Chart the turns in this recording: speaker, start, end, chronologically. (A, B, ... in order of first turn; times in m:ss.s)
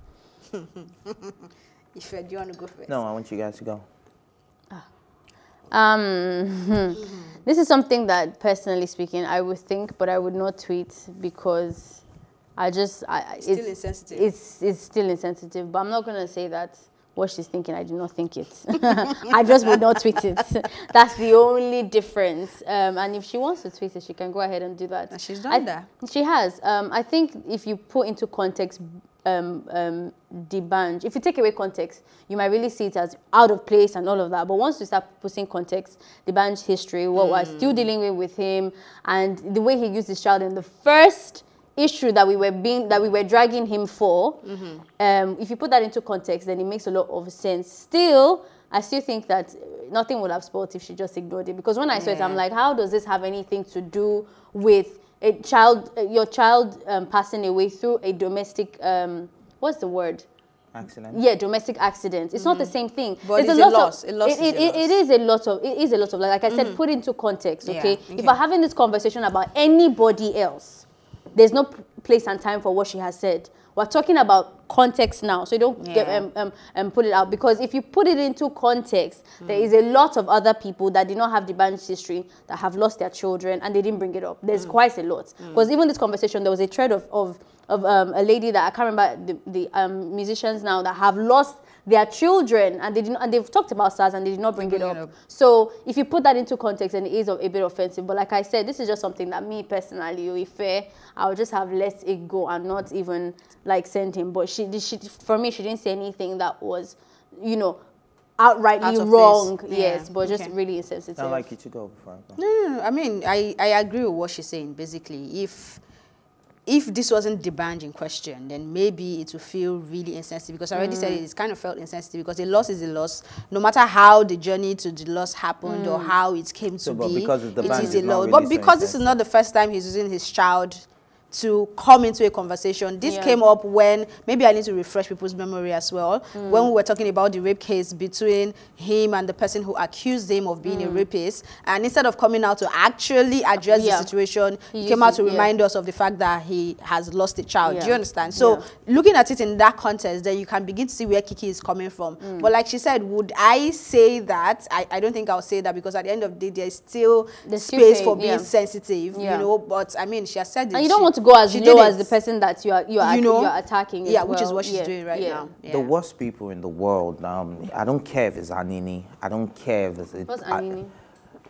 0:00.5-0:02.9 A
0:02.9-0:03.8 B
0:05.7-0:12.0 C
0:12.6-0:44.4 C
0:13.4-0:14.2 A
0:25.1-0:25.8 A
0:37.1-0:37.8 A
0:44.4-0:44.8 A
0:45.0-1:00.2 C
0:51.9-0:52.4 A
1:00.7-1:01.2 B
1:01.1-1:47.8 C
1:02.3-1:04.9 A
1:06.5-1:06.8 A
1:07.6-1:08.4 A
1:15.8-1:16.2 A
1:19.4-1:19.7 A
1:34.6-1:35.1 A
1:48.4-1:51.5 C
1:48.8-1:50.5 A
1:51.2-1:52.4 B
1:52.4-1:55.8 A
1:56.6-2:42.1 A
2:00.8-2:01.2 C
2:05.6-2:06.1 C
2:06.8-2:09.1 B
2:07.6-2:08.0 C
2:13.0-2:13.4 C
2:16.4-2:16.7 C
2:20.6-2:21.0 C
2:23.7-2:24.1 C
2:24.7-2:25.5 C
2:27.6-2:28.6 C
2:32.2-2:32.5 C
2:37.4-2:38.5 C
2:39.1-2:39.5 C
2:40.7-2:45.5 C
2:43.0-2:45.9 A
2:45.7-2:50.7 B
2:50.3-2:50.9 C